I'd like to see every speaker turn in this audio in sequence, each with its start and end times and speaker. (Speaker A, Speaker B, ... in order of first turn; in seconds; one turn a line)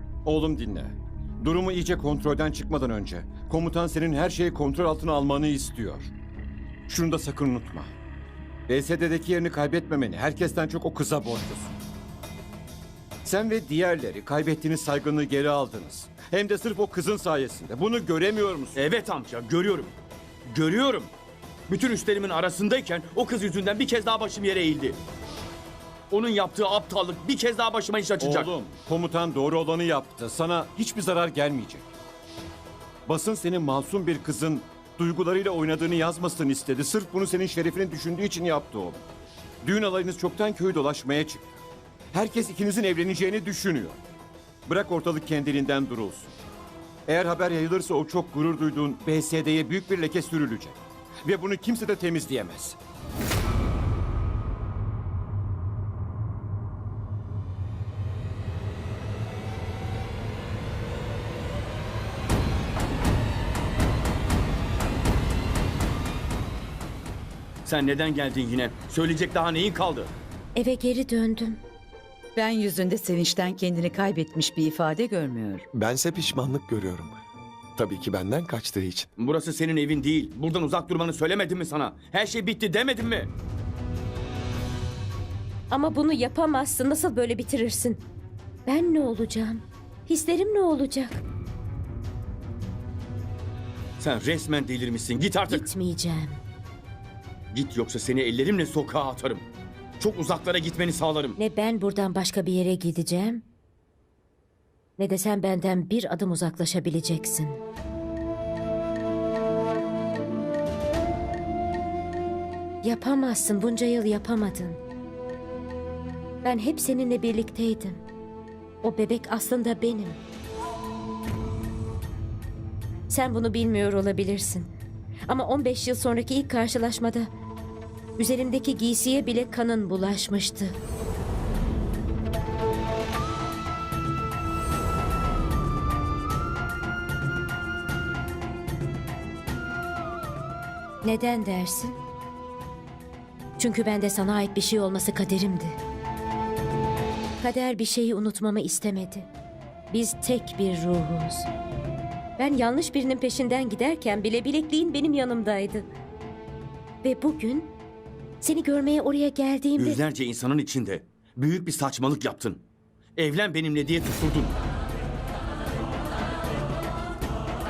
Speaker A: 0.2-6.1
Speaker A: 6.9-7.9
Speaker A: 8.7-11.8
Speaker A: 13.2-18.8
Speaker B: 18.8-19.9
Speaker B: 20.5-21.1
Speaker B: 21.7-25.0
Speaker B: 26.1-28.5
Speaker A: 28.2-31.9
Speaker A: 33.0-39.0
Speaker A: 39.6-41.5
Speaker A: 42.1-44.0
Speaker A: 44.7-46.4
Speaker A: 47.1-52.8
Speaker B: 67.6-70.1
Speaker C: 70.5-71.6
Speaker D: 72.3-75.7
Speaker E: 75.7-77.2
Speaker E: 77.8-79.1
Speaker B: 79.2-83.3
Speaker C: 85.7-88.0
Speaker C: 88.7-91.2
Speaker B: 94.0-95.7
Speaker C: 95.5-96.4
Speaker B: 97.5-99.5
Speaker B: 100.0-101.4
Speaker C: 101.4-103.4
Speaker C: 105.0-107.6
Speaker C: 112.8-114.8
Speaker C: 116.4-118.0
Speaker C: 118.8-120.2
Speaker C: 123.1-124.7
Speaker C: 125.3-127.3
Speaker C: 128.2-130.7
Speaker C: 141.0-142.0
Speaker C: 143.6-145.8
Speaker C: 147.4-149.3
Speaker C: 149.9-151.5
Speaker C: 152.4-155.9
Speaker C: 157.0-157.8
Speaker C: 158.4-160.0
Speaker B: 159.8-162.7
Speaker B: 163.2-164.6